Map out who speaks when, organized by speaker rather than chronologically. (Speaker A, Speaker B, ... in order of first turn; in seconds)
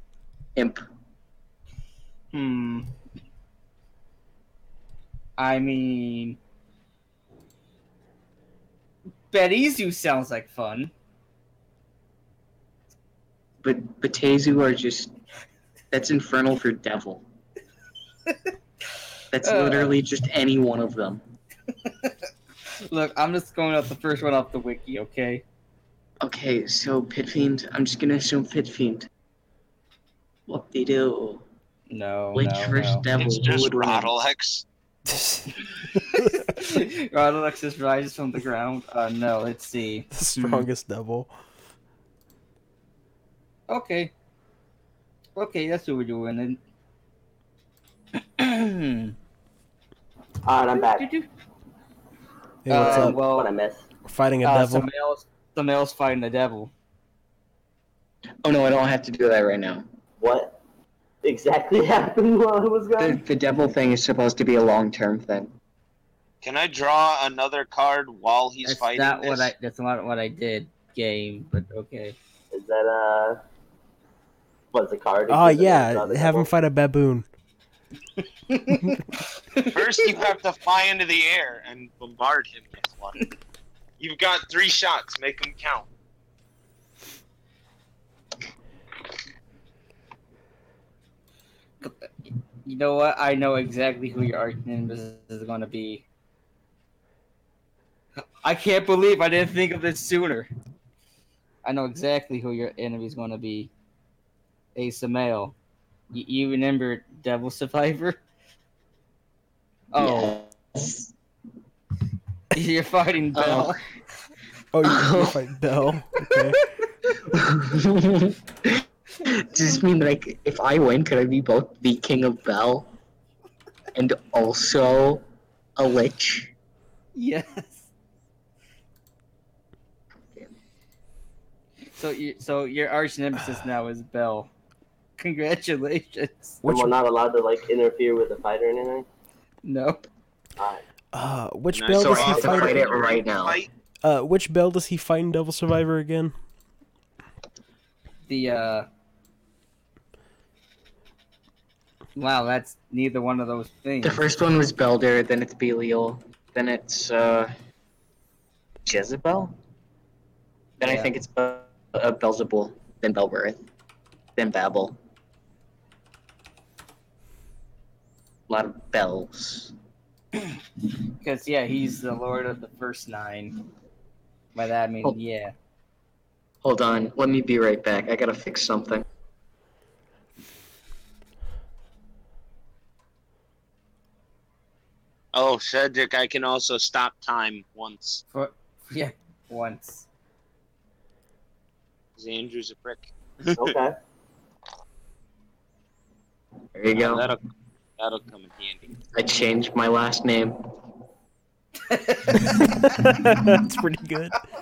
Speaker A: 0.6-0.8, 13.6-15.1, 15.9-17.2, 19.3-21.2, 26.2-29.1, 30.5-31.4, 32.3-34.1, 58.4-59.9, 63.0-65.5, 110.0-111.1, 113.3-113.8, 114.8-115.4, 117.3-122.9, 123.9-125.2, 125.8-126.5, 141.9-143.6, 154.0-157.5, 158.8-159.5, 160.8-163.6, 164.3-165.0, 168.5-169.7, 176.6-179.0, 196.7-197.3, 199.1-200.6
Speaker B: 2.3-2.9, 5.4-6.4, 9.3-10.9, 19.4-20.0, 21.8-25.4, 31.9-33.0, 35.9-40.7, 43.7-44.1, 45.4-46.6, 48.1-49.1, 50.7-51.3, 52.7-53.5, 54.4-56.7, 68.6-72.2, 78.5-79.8, 91.8-92.1, 92.6-96.0, 98.4-100.5, 101.6-103.7, 104.7-105.5, 106.1-108.2, 109.9-110.4, 112.5-113.8, 127.1-127.9, 131.9-134.5, 135.2-136.6, 139.6-140.0, 148.3-148.9, 152.2-154.2, 160.8-161.1, 171.2-173.6, 174.6-175.5, 188.3-190.1, 201.9-202.7
Speaker C: 33.1-34.6, 66.4-69.5, 79.7-83.2, 84.0-85.9, 141.7-143.7, 185.3-188.2, 192.2-193.7, 196.9-197.4, 198.0-199.0
Speaker D: 35.1-35.5, 40.1-41.3, 52.6-53.2, 54.0-54.9, 75.3-77.2, 114.7-116.6, 136.6-136.9, 141.1-142.9, 144.0-146.3, 202.9-204.4
Speaker E: 50.4-51.1, 52.7-53.8, 60.2-60.6, 61.2-63.2, 72.5-73.4, 74.7-76.5, 136.6-139.1, 193.6-193.9